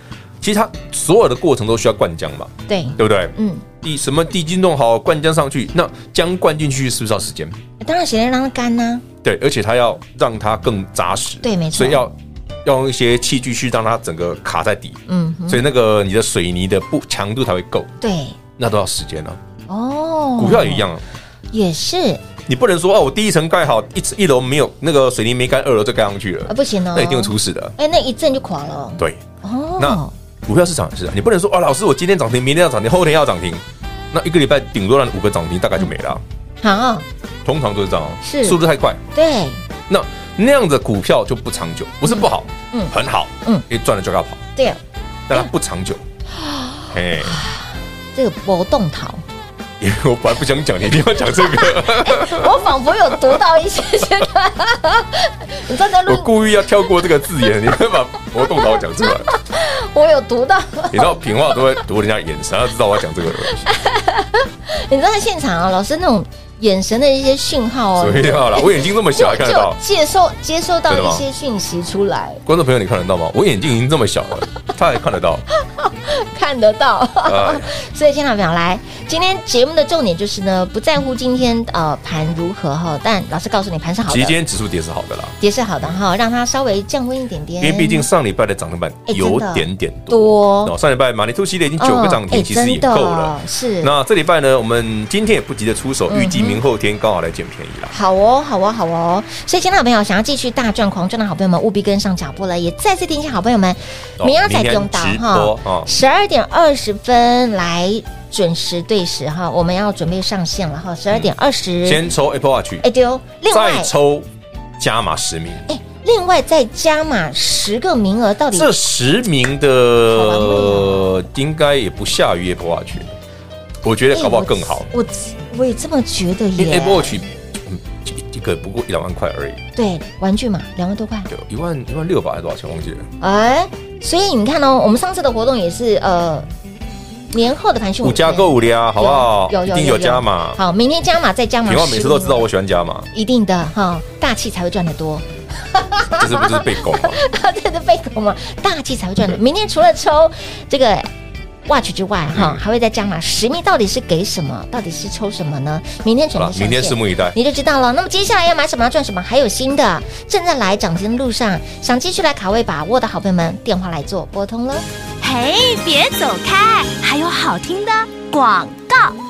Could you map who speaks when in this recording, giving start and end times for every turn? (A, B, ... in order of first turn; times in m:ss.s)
0:00.4-0:07.6 A
0:02.7-0:03.6 B
0:07.8-0:09.0 B
0:09.2-0:17.9 A
0:11.4-0:12.0 B
0:15.1-0:15.6 B
0:18.0-0:18.4 B
0:18.6-0:19.4 A
0:19.7-0:20.8 B
0:20.4-0:21.0 A
0:21.5-0:22.2 B
0:22.4-0:27.7 A
0:26.5-0:30.1 B
0:29.8-0:36.2 A
0:36.6-0:37.0 B
0:37.4-0:39.0 A
0:38.2-0:38.6 B
0:39.1-0:39.6 B
0:39.9-0:44.4 A
0:42.0-0:43.6 B
0:45.3-0:46.0 A
0:46.4-0:49.2 B
0:46.9-0:47.4 A
0:49.8-0:52.6 A
0:51.3-0:56.3 B
0:56.0-0:59.3 A
0:58.4-1:01.7 B
1:00.9-1:03.6 A
1:03.4-1:12.4 B
1:08.0-1:09.8 A
1:10.9-1:11.2 A
1:12.4-1:15.4 A
1:15.6-1:24.4 B
1:17.2-1:17.7 A
1:24.1-1:26.0 A
1:25.4-1:28.1 B
1:27.6-1:37.9 A
1:29.1-1:30.7 B
1:31.8-1:33.9 B
1:36.1-1:36.6 B
1:37.9-1:52.0 B
1:44.2-1:45.9 A
1:51.8-1:52.8 A
1:52.8-1:53.9 B
1:53.5-1:55.6 A
1:55.7-1:58.7 B
1:58.5-2:03.2 A
2:00.1-2:01.2 B
2:03.8-2:04.9 A
2:04.1-2:07.2 B
2:06.6-2:09.6 A
2:09.8-2:11.3 B
2:11.3-2:13.1 A
2:13.2-2:16.5 B
2:17.3-2:22.4 B
2:18.0-2:20.6 A
2:21.6-2:23.1 A
2:23.1-2:31.1 B
2:26.2-2:27.2 A
2:31.6-2:44.8 B
2:32.3-2:32.6 A
2:36.3-2:37.4 A
2:45.2-2:49.1 C